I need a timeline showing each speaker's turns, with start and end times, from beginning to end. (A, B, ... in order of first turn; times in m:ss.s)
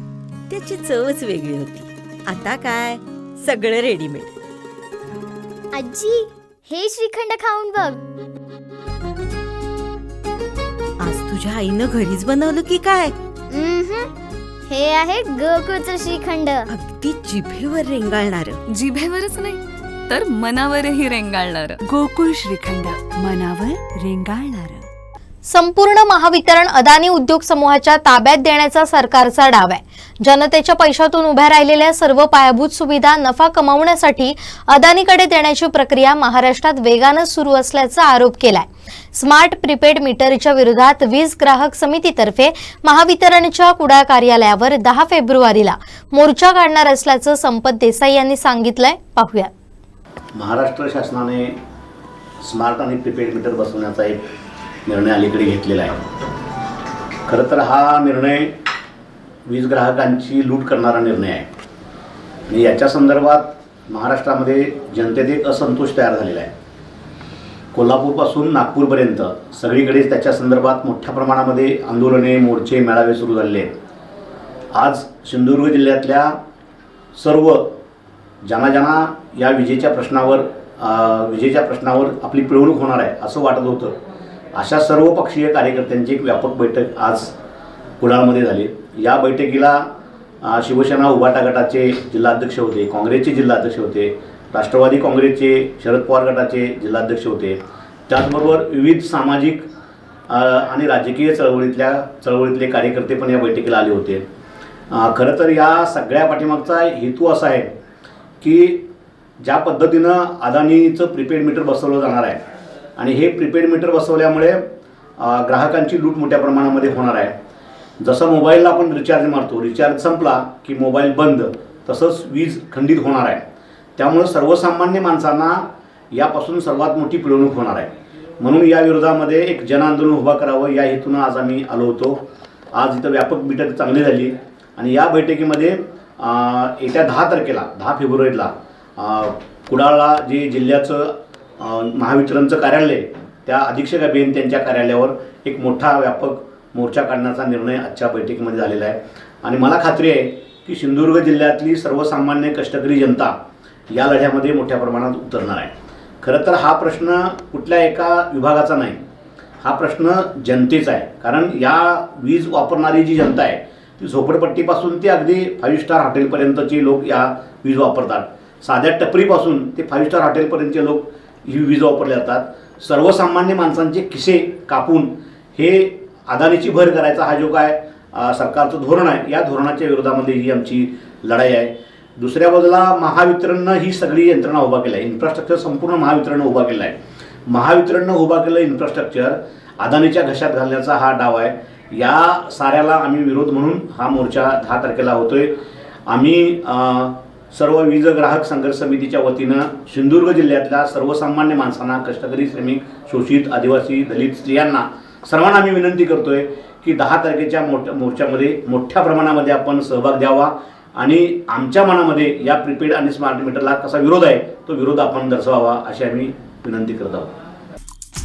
0:00.5-0:04.3 A
0:05.7-0:08.0 B
0:11.0-0:13.1 A
0:13.5-0:14.1 B
0:14.7-0:16.7 B
0:16.7-0:18.6 A
0:18.7-0:21.8 C
0:21.8-0:24.8 D
0:25.5-0:49.5 E
0:50.4-0:51.6 F
0:52.4-0:54.2 F
0:54.8-0:56.0 F
0:57.3-0:58.5 F
0:59.5-1:01.5 F
1:02.5-1:06.5 F
1:07.7-1:13.7 F
1:14.7-1:16.3 F
1:17.1-1:17.7 F
1:18.4-1:23.9 F
1:24.5-1:27.3 F
1:28.0-1:29.8 F
1:30.4-1:39.7 F
1:40.3-1:44.2 F
1:44.9-1:47.7 F
1:48.4-1:48.8 F
1:49.4-1:52.4 F
1:53.0-1:54.6 F
1:55.2-1:57.3 F
1:58.0-2:03.4 F
2:04.0-2:12.2 F
2:12.7-2:33.3 F
2:33.9-2:35.7 F
2:36.2-2:39.0 F
2:39.6-3:07.0 F
3:07.5-3:15.5 F
3:16.1-3:37.3 F